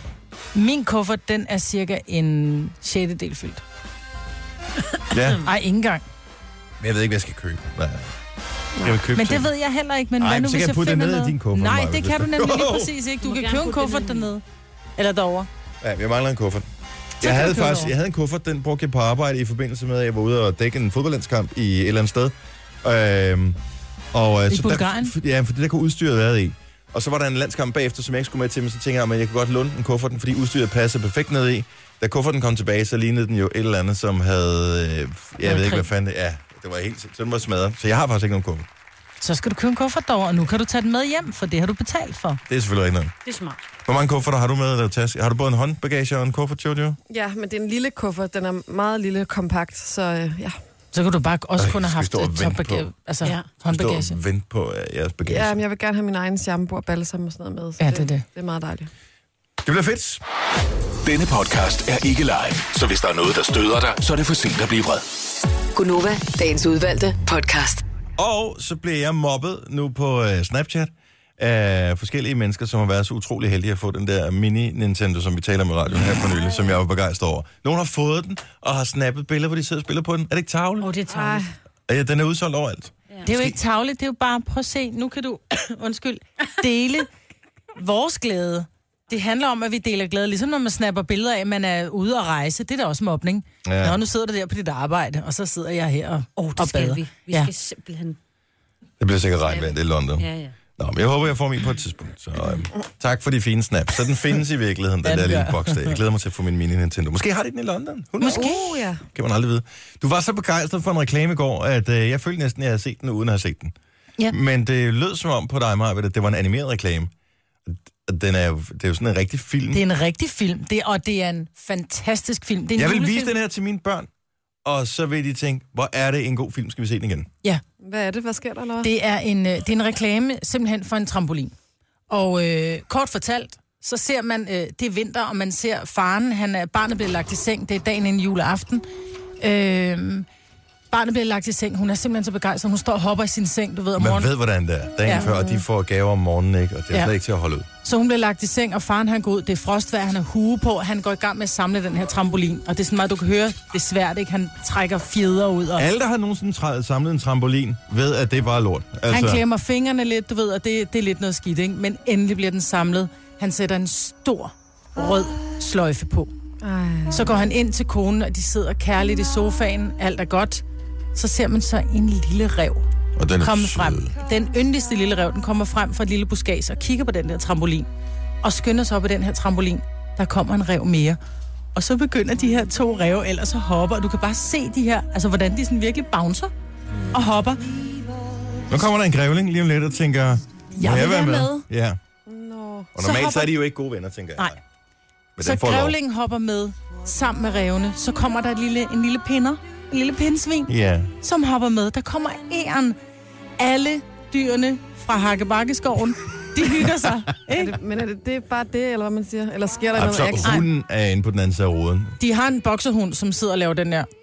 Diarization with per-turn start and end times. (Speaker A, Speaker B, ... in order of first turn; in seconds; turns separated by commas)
Speaker A: 0.5-3.6, Speaker B: 5.1-5.4, Speaker A: 5.4-6.0, Speaker B: 6.8-8.1, Speaker B: 8.8-9.5, Speaker A: 9.1-14.4, Speaker B: 10.2-12.9, Speaker C: 13.2-14.3, Speaker A: 15.0-15.5, Speaker B: 15.8-16.6, Speaker A: 17.2-17.9, Speaker B: 17.2-23.6, Speaker B: 24.1-38.7, Speaker A: 24.5-25.1, Speaker A: 35.4-35.9, Speaker A: 39.2-42.4, Speaker B: 42.5-43.1, Speaker C: 43.2-43.6, Speaker B: 43.8-47.0, Speaker D: 47.1-50.5, Speaker A: 50.9-54.2, Speaker B: 51.6-52.9, Speaker B: 53.6-55.6, Speaker D: 55.2-58.9, Speaker A: 57.8-58.2, Speaker B: 59.6-60.2, Speaker E: 61.0-65.0, Speaker F: 65.8-67.8, Speaker B: 68.2-81.0, Speaker C: 76.3-76.8, Speaker C: 80.8-81.5, Speaker D: 81.1-81.5, Speaker B: 81.9-83.6, Speaker A: 83.2-87.1, Speaker A: 87.8-97.5, Speaker B: 93.6-94.0, Speaker C: 96.4-98.2, Speaker B: 99.0-113.7, Speaker C: 99.5-100.5, Speaker A: 105.0-106.0, Speaker A: 108.2-108.8, Speaker D: 108.2-109.0, Speaker B: 114.3-117.1, Speaker B: 117.7-119.8, Speaker A: 119.7-123.3, Speaker B: 122.7-124.1, Speaker B: 124.6-127.3, Speaker D: 127.8-128.9, Speaker A: 128.8-131.5, Speaker A: 132.1-138.8, Speaker A: 139.4-140.2, Speaker A: 140.9-144.3, Speaker B: 143.9-147.7, Speaker D: 145.1-145.6, Speaker A: 147.8-155.8, Speaker B: 155.8-159.4, Speaker A: 159.1-166.3, Speaker D: 166.6-167.5, Speaker A: 167.1-170.6, Speaker A: 171.1-172.8, Speaker B: 173.2-174.1, Speaker A: 173.4-177.9, Speaker A: 178.4-181.2, Speaker A: 181.7-186.5, Speaker A: 187.1-187.6, Speaker B: 188.7-192.0, Speaker A: 190.7-191.7, Speaker D: 192.2-192.9, Speaker B: 192.9-194.6, Speaker A: 193.0-193.5, Speaker B: 195.3-195.9, Speaker A: 195.4-200.7, Speaker B: 200.7-201.1, Speaker A: 201.2-203.0, Speaker A: 203.6-207.8, Speaker D: 207.5-210.6, Speaker B: 209.9-212.2, Speaker A: 212.2-214.1